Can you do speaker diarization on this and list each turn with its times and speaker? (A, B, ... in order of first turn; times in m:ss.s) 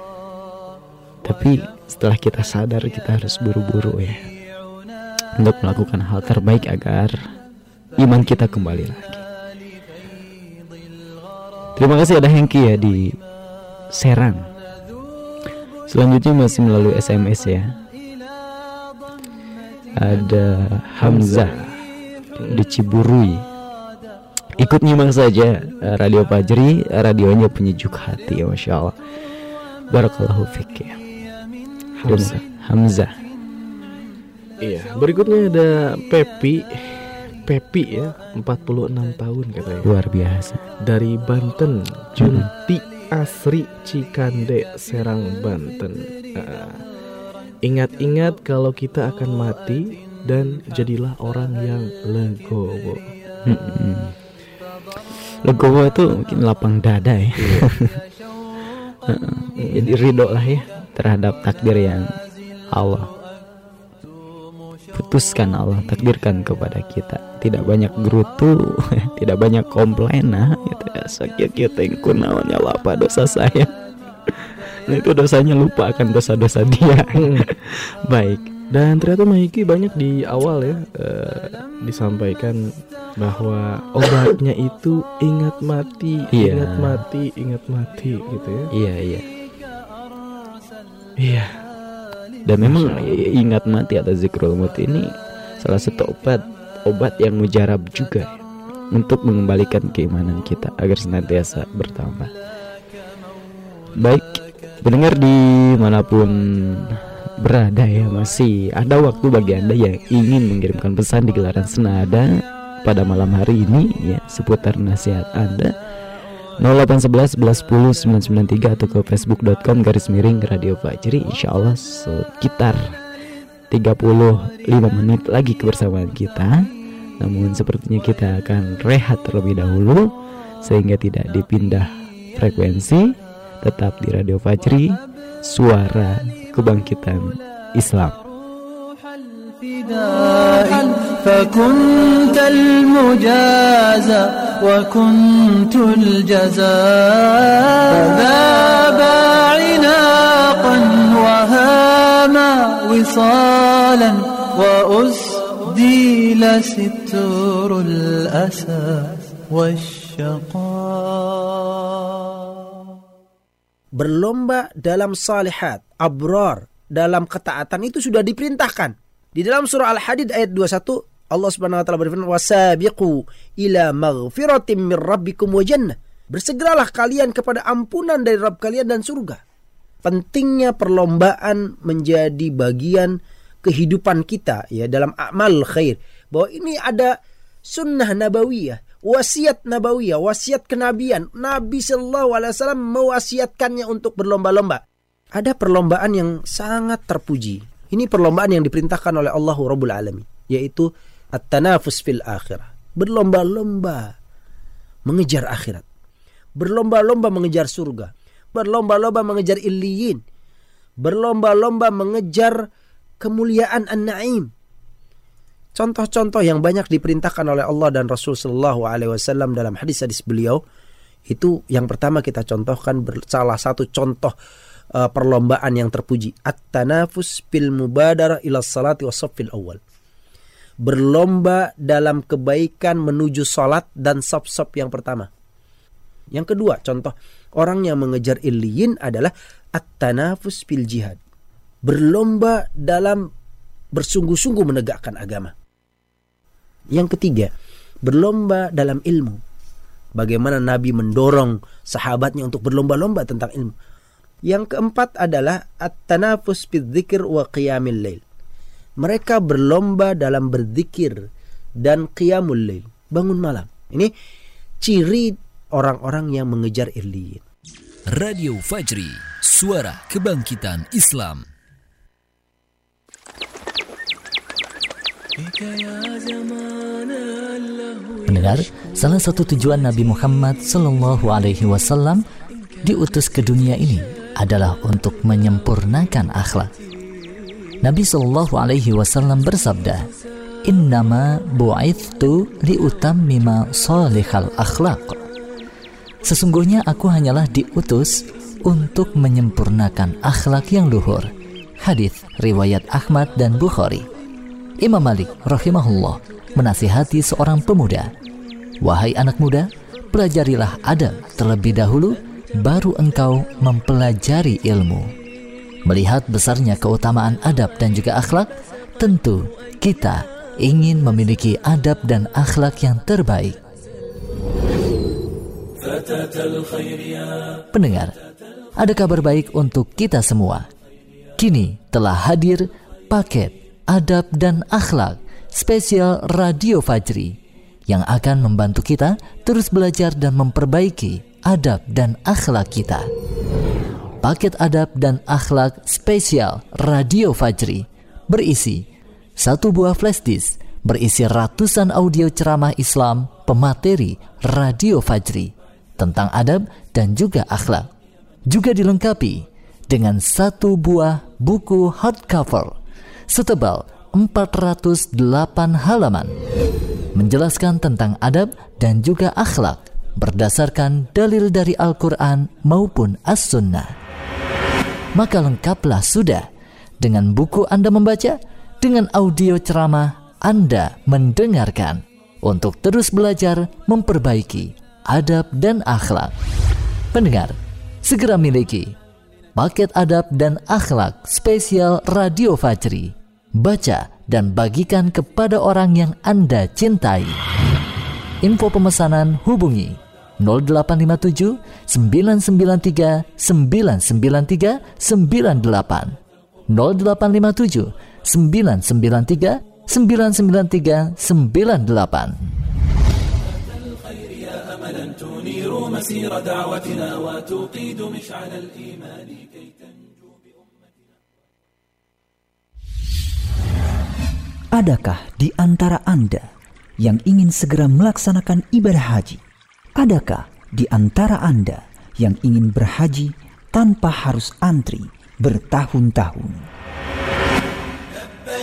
0:01.2-0:04.3 A
0:05.4-0:07.2 A
0:08.0-0:09.2 A
0:11.8-0:13.1 A
0:13.9-0:14.4 A
0:15.9-0:17.7 A
0:20.0-0:21.5 A
0:21.0-0:21.7 B
0:22.5-0:23.4 A
0:24.6-0:29.0 A
0:29.9-0:31.0 A
0:32.0-0:32.4 B
0:32.0-0:33.1 A
0:34.6-0:39.9 B
0:39.8-0:40.6 A
0:40.8-0:46.8 B
0:42.2-0:42.5 A
0:47.6-0:53.8 B
0:53.4-0:54.1 A
0:55.4-0:57.9 A
0:57.4-0:57.7 B
0:59.1-1:02.1 A
0:59.6-0:59.9 B
1:02.7-1:03.1 A
1:04.9-1:13.7 A
1:14.9-1:18.5 A
1:17.2-1:17.5 B
1:18.7-1:22.6 B
1:23.2-1:28.7 B
1:26.3-1:27.0 A
1:28.7-1:29.2 A
1:31.2-1:31.6 B
1:32.5-1:38.4 A
1:32.6-1:33.2 B
1:38.9-1:42.3 A
1:44.0-1:55.7 A
1:56.6-2:02.9 A
2:03.7-2:06.6 A
2:07.2-2:10.0 A
2:10.6-2:18.2 A
2:19.5-2:41.4 C
2:44.0-2:59.4 D
3:00.0-3:07.1 D
3:07.7-3:14.8 D
3:15.3-3:24.1 D
3:25.0-3:25.8 D
3:26.6-3:30.2 D
3:31.0-3:32.6 D
3:33.2-3:34.5 D
3:35.8-3:40.6 D
3:41.3-3:44.3 D
3:45.0-3:49.8 D
3:50.8-3:55.3 D
3:56.3-4:01.2 D
4:01.8-4:03.3 D
4:03.9-4:05.5 D
4:06.9-4:07.5 D
4:08.0-4:09.4 D
4:10.2-4:13.7 D
4:14.5-4:18.2 D
4:19.0-4:21.2 D
4:21.8-4:24.1 D
4:24.8-4:27.4 D
4:28.1-4:31.5 E
4:38.2-4:42.2 F
4:42.8-4:46.7 F
4:47.8-4:50.1 F
4:50.6-4:55.2 F
4:56.2-5:01.3 F
5:01.8-5:04.1 F
5:04.8-5:08.1 F
5:08.8-5:15.1 F
5:15.8-5:23.6 F
5:27.7-5:28.1 F
5:28.8-5:30.7 F
5:31.4-5:43.1 F
5:44.2-5:48.8 F
5:49.4-5:57.9 F
5:58.5-6:02.8 F
6:03.3-6:06.4 F
6:07.1-6:13.9 F
6:15.1-6:16.5 F
6:17.0-6:26.3 F
6:27.1-6:28.9 F
6:29.5-6:37.4 F
6:38.4-6:46.2 F
6:46.7-6:52.5 F
7:04.7-7:06.5 G
7:07.0-7:09.4 G
7:10.0-7:16.7 G